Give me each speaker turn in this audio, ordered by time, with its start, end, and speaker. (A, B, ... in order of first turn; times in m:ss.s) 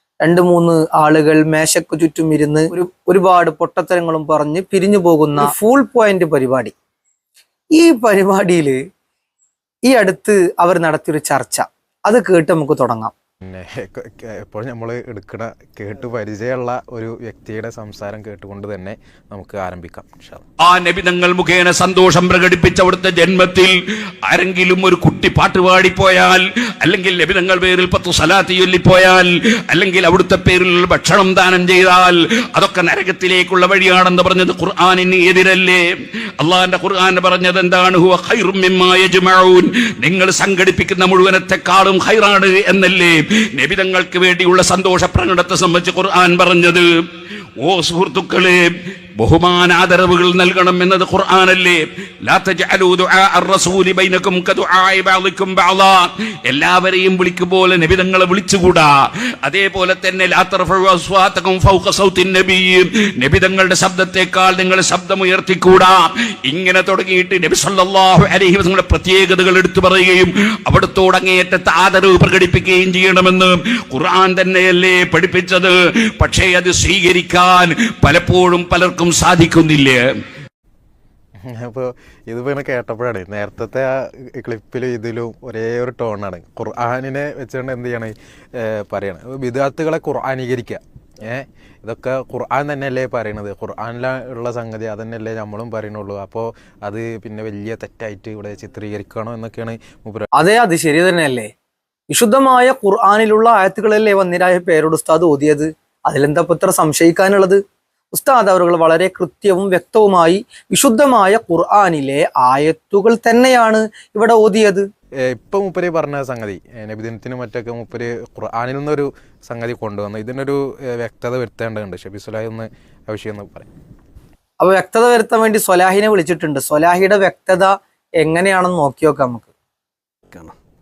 0:00.2-0:06.7 A
0:07.7-0:08.8 A
0:09.9-0:13.1 A
0:13.4-0:20.4 B
0:20.7-0:23.6 C
0:24.4-0:29.2 C
0:29.8-0:35.8 C
0:36.4-0:46.8 C
0:47.7-0:48.5 C
0:49.2-0:51.7 C
0:52.3-0:55.9 C
0:56.5-0:58.8 C
0:59.5-1:06.0 C
1:06.5-1:15.7 C
1:16.2-1:19.9 C
1:21.5-1:23.9 B
1:24.4-1:28.1 B
1:28.8-1:40.2 B
1:40.4-1:41.5 A
1:42.1-1:47.6 A
1:48.1-1:54.8 A
1:55.3-2:03.7 B
2:04.6-2:09.5 A